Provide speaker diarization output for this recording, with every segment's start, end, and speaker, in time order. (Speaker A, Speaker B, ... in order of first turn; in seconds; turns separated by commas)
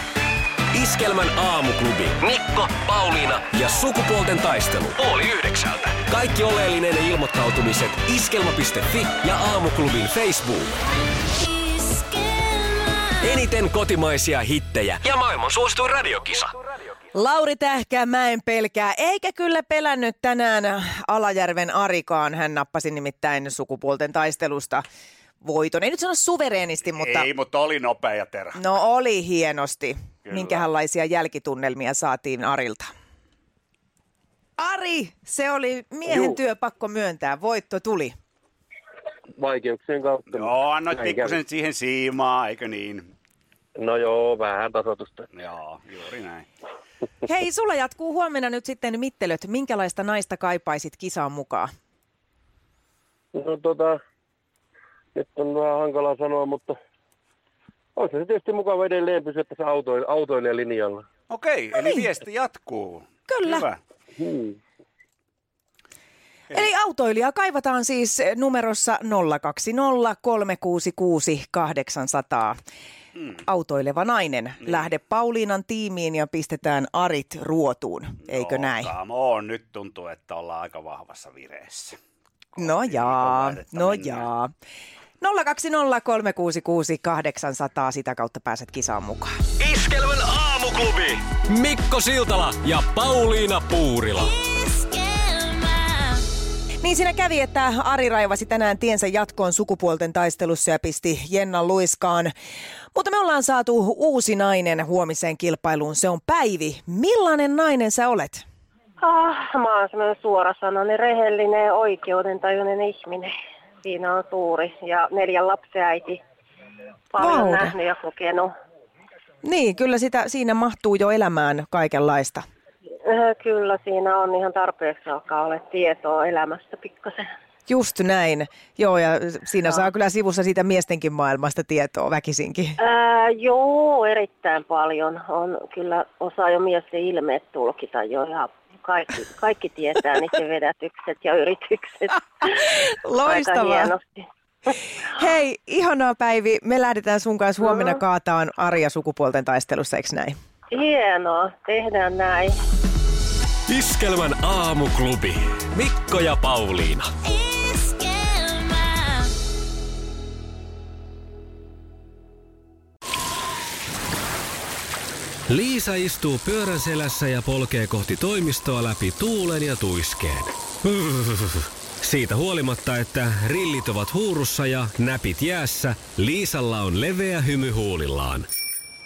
Speaker A: 0.7-10.7, Speaker A: 13.2-16.5, Speaker B: 17.1-24.8, Speaker B: 25.4-27.3, Speaker C: 26.9-28.6, Speaker B: 28.6-32.9, Speaker C: 30.3-30.6, Speaker B: 34.6-38.1, Speaker D: 36.1-36.4, Speaker D: 39.4-41.4, Speaker C: 40.3-43.1, Speaker D: 43.8-45.3, Speaker C: 45.3-46.5, Speaker B: 47.2-51.7, Speaker D: 53.3-54.0, Speaker D: 55.1-56.8, Speaker D: 58.0-61.0, Speaker C: 61.3-63.8, Speaker B: 61.8-62.0, Speaker B: 63.3-63.7, Speaker D: 64.2-64.6, Speaker B: 66.5-72.6, Speaker B: 73.4-78.9, Speaker C: 78.3-82.0, Speaker C: 82.6-84.3, Speaker B: 82.6-84.5, Speaker B: 85.2-89.3, Speaker A: 89.6-94.3, Speaker B: 96.8-102.3, Speaker B: 102.9-108.4, Speaker E: 109.0-116.2, Speaker E: 117.1-118.5, Speaker B: 117.2-117.7, Speaker B: 119.4-122.5, Speaker E: 123.0-127.3, Speaker B: 127.7-132.8, Speaker E: 132.8-142.2, Speaker B: 142.5-143.9, Speaker E: 143.3-144.3, Speaker B: 145.1-150.3, Speaker E: 150.7-152.6, Speaker A: 153.7-157.1, Speaker E: 157.6-158.9, Speaker A: 165.5-178.5